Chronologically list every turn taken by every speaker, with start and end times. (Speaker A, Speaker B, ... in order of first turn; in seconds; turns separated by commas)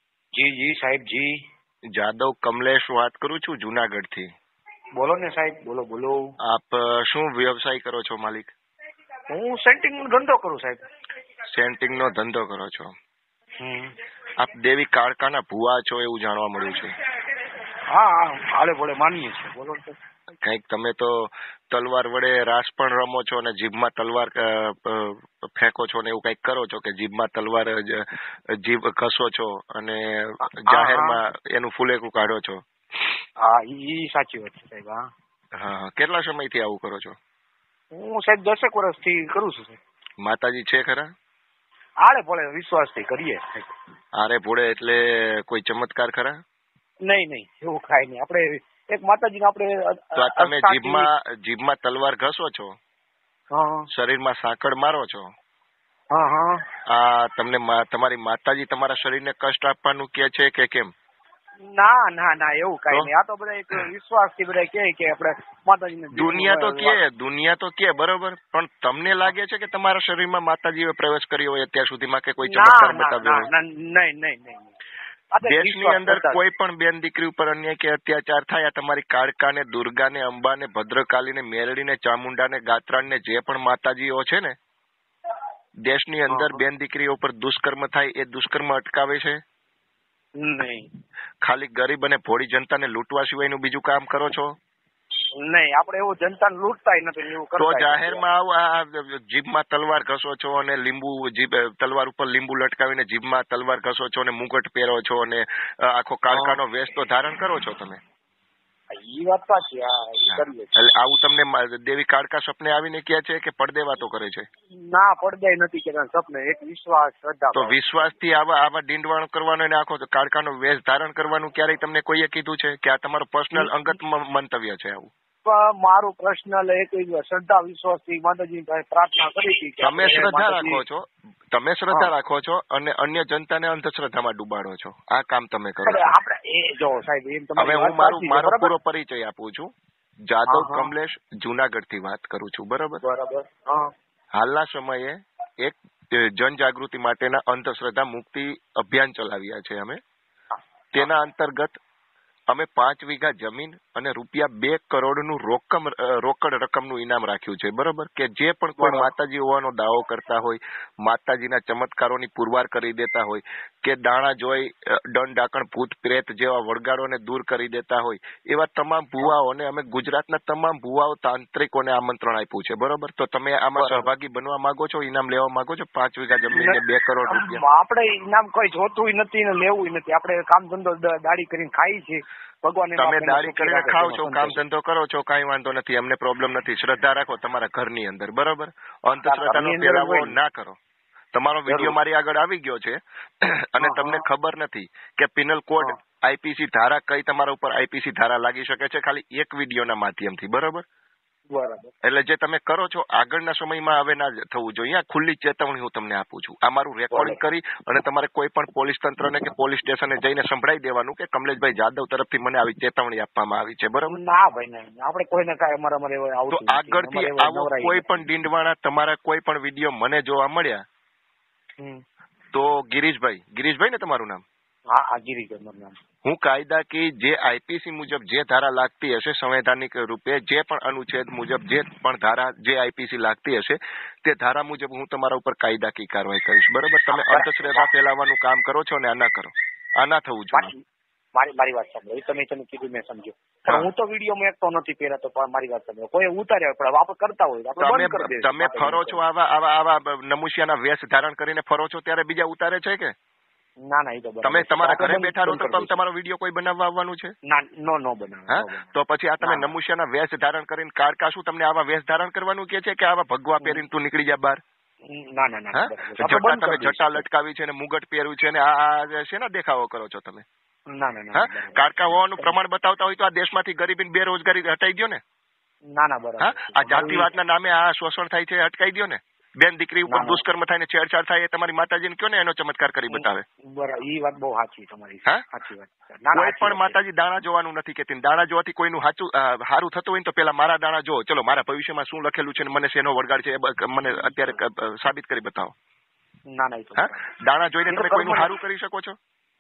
Speaker A: 0.3-1.4, Speaker B: 1.9-4.3, Speaker A: 5.0-6.3, Speaker B: 6.5-8.5, Speaker A: 9.3-10.8, Speaker B: 11.5-12.9, Speaker A: 13.6-13.9, Speaker B: 14.4-16.9, Speaker A: 17.9-20.0, Speaker B: 20.4-28.1, Speaker B: 28.6-32.6, Speaker A: 30.4-31.2, Speaker A: 33.4-35.1, Speaker B: 35.6-37.2, Speaker A: 37.9-39.8, Speaker B: 40.2-41.1, Speaker A: 42.0-43.7, Speaker B: 44.2-46.4, Speaker A: 47.0-51.1, Speaker B: 50.2-52.8, Speaker A: 53.5-53.9, Speaker B: 53.9-55.3, Speaker A: 56.1-56.6, Speaker B: 56.9-60.9, Speaker A: 61.7-67.0, Speaker B: 66.2-73.5, Speaker A: 72.4-74.8, Speaker A: 75.3-76.4, Speaker B: 75.4-84.6, Speaker B: 85.9-89.4, Speaker A: 86.3-86.6, Speaker A: 90.4-90.9, Speaker B: 91.4-94.5, Speaker A: 95.4-98.2, Speaker B: 97.6-108.0, Speaker A: 106.3-106.6, Speaker A: 108.9-110.9, Speaker B: 110.3-114.5, Speaker A: 114.8-118.2, Speaker B: 117.5-125.1, Speaker A: 123.5-123.9, Speaker A: 125.5-130.8, Speaker B: 129.8-136.0, Speaker A: 135.8-138.7, Speaker B: 137.6-139.7, Speaker B: 140.3-143.0, Speaker A: 140.5-140.9, Speaker A: 143.0-143.9, Speaker B: 144.3-150.0, Speaker A: 150.5-151.1, Speaker B: 150.9-151.8, Speaker B: 152.5-177.6, Speaker A: 158.8-159.1, Speaker A: 173.8-174.1, Speaker A: 176.5-184.6, Speaker B: 183.0-190.8, Speaker A: 189.2-190.3, Speaker B: 191.3-200.8, Speaker A: 191.7-192.0, Speaker A: 193.8-194.2, Speaker A: 201.5-201.9, Speaker B: 202.0-214.2, Speaker A: 207.1-207.4, Speaker A: 214.1-218.2, Speaker B: 216.5-220.8, Speaker A: 221.8-222.0, Speaker B: 222.5-224.4, Speaker A: 224.9-226.0, Speaker B: 226.2-240.7, Speaker A: 237.1-237.9, Speaker A: 240.5-240.8, Speaker A: 241.3-249.2, Speaker B: 247.8-253.1, Speaker A: 253.9-256.0, Speaker B: 254.4-257.3, Speaker A: 257.5-258.9, Speaker B: 258.5-264.6, Speaker A: 259.4-259.7, Speaker A: 265.1-267.3, Speaker B: 265.7-270.4, Speaker A: 270.9-272.6, Speaker B: 271.3-275.2, Speaker A: 275.9-277.3, Speaker B: 276.4-283.4, Speaker A: 280.1-280.4, Speaker A: 283.1-287.0, Speaker B: 286.3-295.7, Speaker A: 294.0-294.6, Speaker A: 296.5-297.3, Speaker B: 297.0-299.2, Speaker A: 297.9-298.5